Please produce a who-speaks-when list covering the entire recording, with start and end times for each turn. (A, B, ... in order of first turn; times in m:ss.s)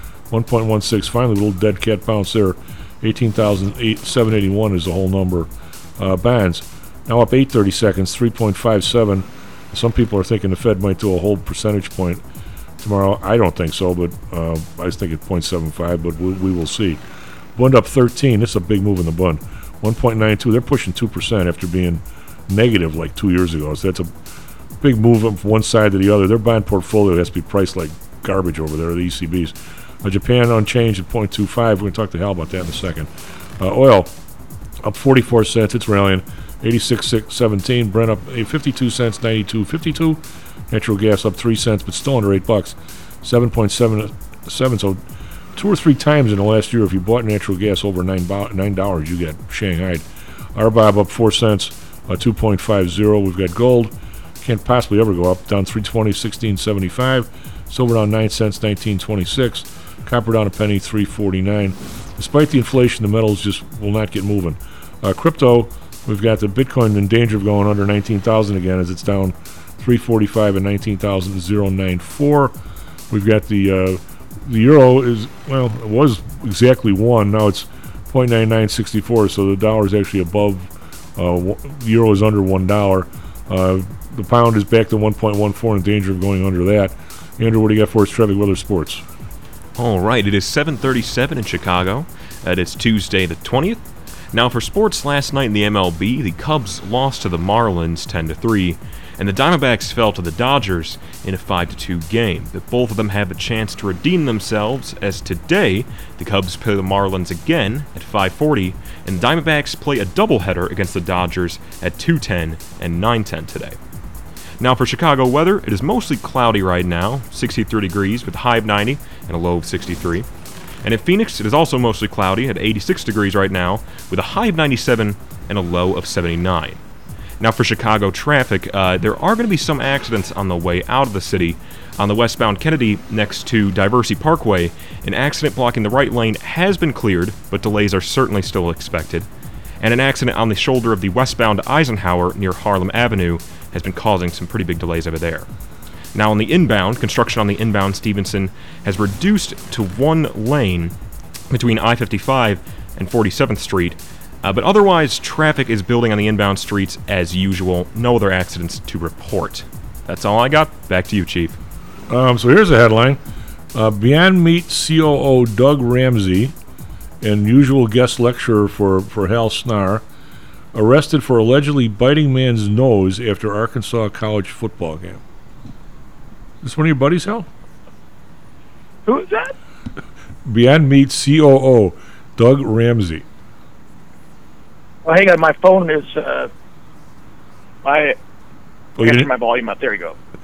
0:00.3-0:12.2 A
0:12.8-0:17.0 A
0:17.6-0:24.1 A
0:24.8-0:34.1 A
0:34.8-0:45.0 A
0:45.5-1:12.5 A
1:13.1-1:29.0 A
1:29.8-1:53.8 B
1:54.6-2:00.3 B
2:00.8-2:06.8 B
2:07.4-2:19.3 B
2:19.8-2:25.5 B
2:26.1-2:30.9 B
2:31.5-2:41.6 B
2:42.1-2:43.2 A
2:43.7-2:46.5 A
2:47.2-2:50.0 A
2:50.7-2:55.2 A
2:56.6-2:57.5 A
2:59.0-2:59.5 C
3:00.4-3:03.2 A
3:05.0-3:06.5 C
3:07.8-3:08.2 C
3:09.0-3:09.3 A
3:09.0-3:10.2 C